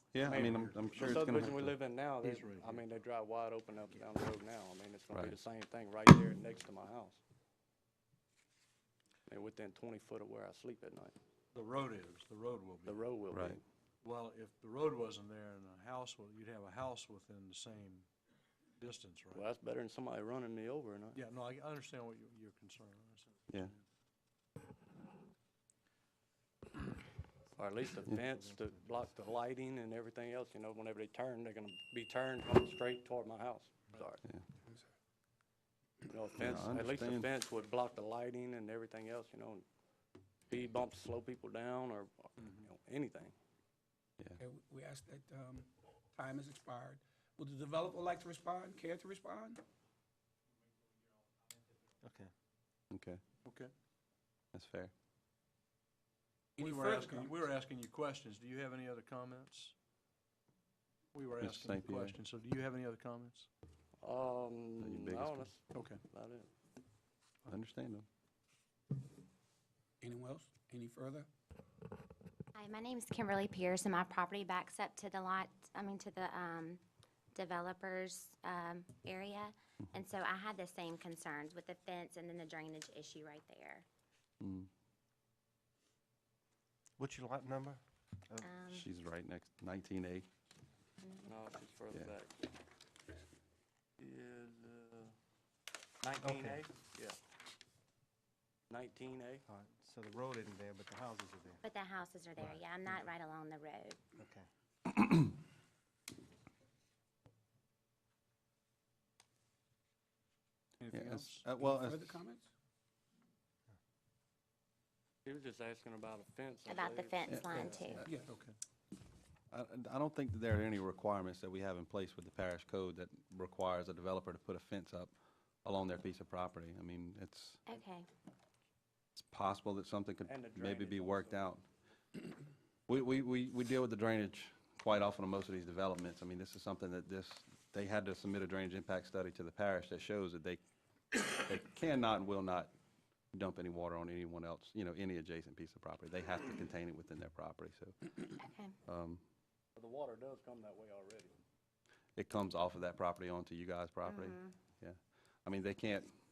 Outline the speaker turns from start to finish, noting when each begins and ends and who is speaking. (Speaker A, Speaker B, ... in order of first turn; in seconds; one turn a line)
Speaker A: 0.1-1.7
Speaker B: 0.2-7.2
Speaker C: 0.3-0.8
Speaker C: 2.2-2.8
Speaker B: 9.3-11.1
Speaker C: 11.5-13.0
Speaker B: 12.8-13.6
Speaker A: 13.3-13.6
Speaker C: 14.0-18.1
Speaker C: 18.8-19.4
Speaker B: 19.3-21.2
Speaker C: 21.1-23.7
Speaker B: 27.5-34.2
Speaker D: 28.3-28.6
Speaker B: 36.1-39.6
Speaker A: 36.4-37.3
Speaker B: 40.5-43.3
Speaker E: 44.4-49.6
Speaker D: 52.0-52.3
Speaker A: 52.9-53.2
Speaker C: 53.4-53.7
Speaker A: 54.5-54.9
Speaker E: 56.6-57.4
Speaker C: 56.6-59.7
Speaker C: 61.1-63.5
Speaker A: 61.4-62.2
Speaker B: 64.0-66.5
Speaker A: 64.8-65.5
Speaker C: 65.7-66.0
Speaker A: 67.5-68.0
Speaker E: 70.0-71.3
Speaker F: 72.5-76.8
Speaker F: 77.3-83.8
Speaker A: 84.4-84.7
Speaker D: 87.0-88.5
Speaker F: 88.4-88.9
Speaker A: 88.7-90.3
Speaker B: 91.2-92.3
Speaker B: 94.0-95.1
Speaker B: 96.0-97.2
Speaker D: 96.2-96.6
Speaker B: 98.7-99.4
Speaker D: 99.5-101.6
Speaker F: 101.6-104.1
Speaker D: 104.2-104.5
Speaker C: 110.8-111.5
Speaker A: 110.9-112.2
Speaker E: 111.7-112.5
Speaker B: 115.2-118.0
Speaker F: 116.7-118.0
Speaker A: 117.3-118.0
Speaker D: 117.5-118.0
Speaker E: 118.0-118.3
Speaker C: 118.2-118.5
Speaker A: 119.5-125.1
Speaker A: 125.6-127.6
Speaker F: 127.7-128.1
Speaker A: 129.2-131.6
Speaker B: 130.2-131.4
Speaker A: 132.9-140.6
Speaker A: 141.1-142.7
Speaker A: 143.3-148.0
Speaker F: 148.4-148.8
Speaker A: 148.9-149.2
Speaker B: 149.8-151.3
Speaker A: 152.2-156.1
Speaker F: 154.1-154.5